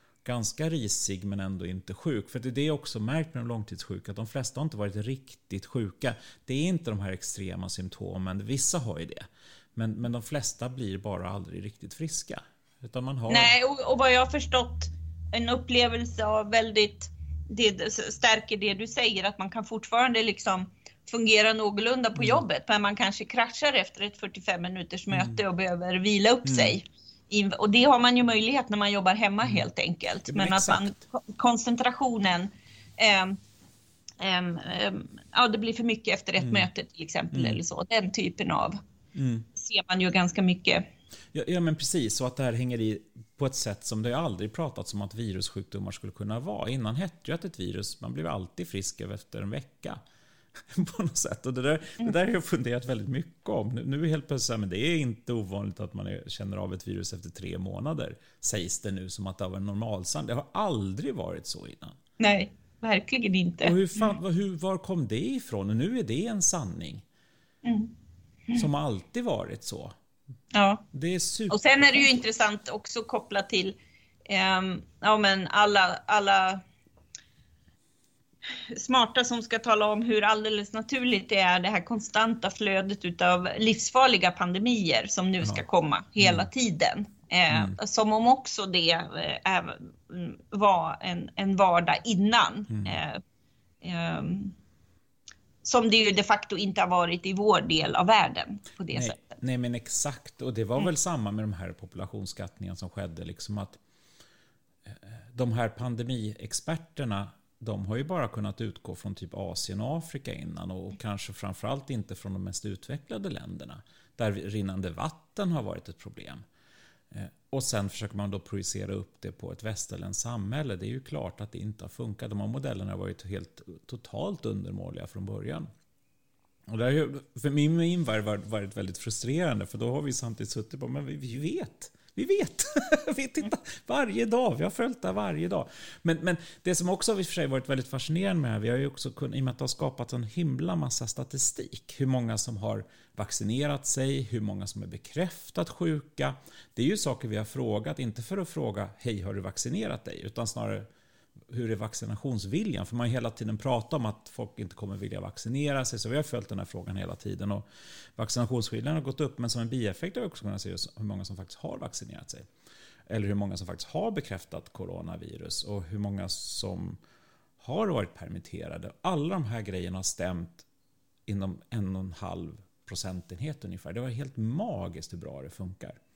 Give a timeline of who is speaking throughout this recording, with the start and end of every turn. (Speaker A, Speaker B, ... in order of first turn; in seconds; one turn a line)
Speaker A: 0.2-13.5
Speaker B: 13.3-33.4
Speaker A: 22.2-22.4
Speaker A: 25.1-25.4
Speaker A: 26.4-26.8
Speaker A: 30.3-31.0
Speaker B: 34.2-38.8
Speaker A: 36.4-36.7
Speaker A: 37.3-37.6
Speaker A: 39.1-39.5
Speaker B: 39.5-40.9
Speaker A: 41.3-50.0
Speaker A: 50.7-62.0
Speaker B: 62.2-64.1
Speaker A: 63.6-67.0
Speaker B: 67.6-67.9
Speaker A: 68.5-70.0
Speaker B: 70.5-70.8
Speaker A: 70.9-72.0
Speaker B: 71.5-73.8
Speaker B: 74.3-76.6
Speaker B: 78.6-93.2
Speaker A: 86.2-86.5
Speaker A: 87.5-87.8
Speaker A: 92.7-93.0
Speaker B: 93.8-94.5
Speaker B: 95.6-99.4
Speaker A: 98.9-103.8
Speaker A: 104.9-116.4
Speaker A: 117.1-125.7
Speaker A: 126.7-150.9
Speaker A: 151.5-157.6
Speaker A: 158.2-162.5
Speaker A: 163.1-167.0
Speaker A: 167.6-170.7
Speaker A: 171.3-176.0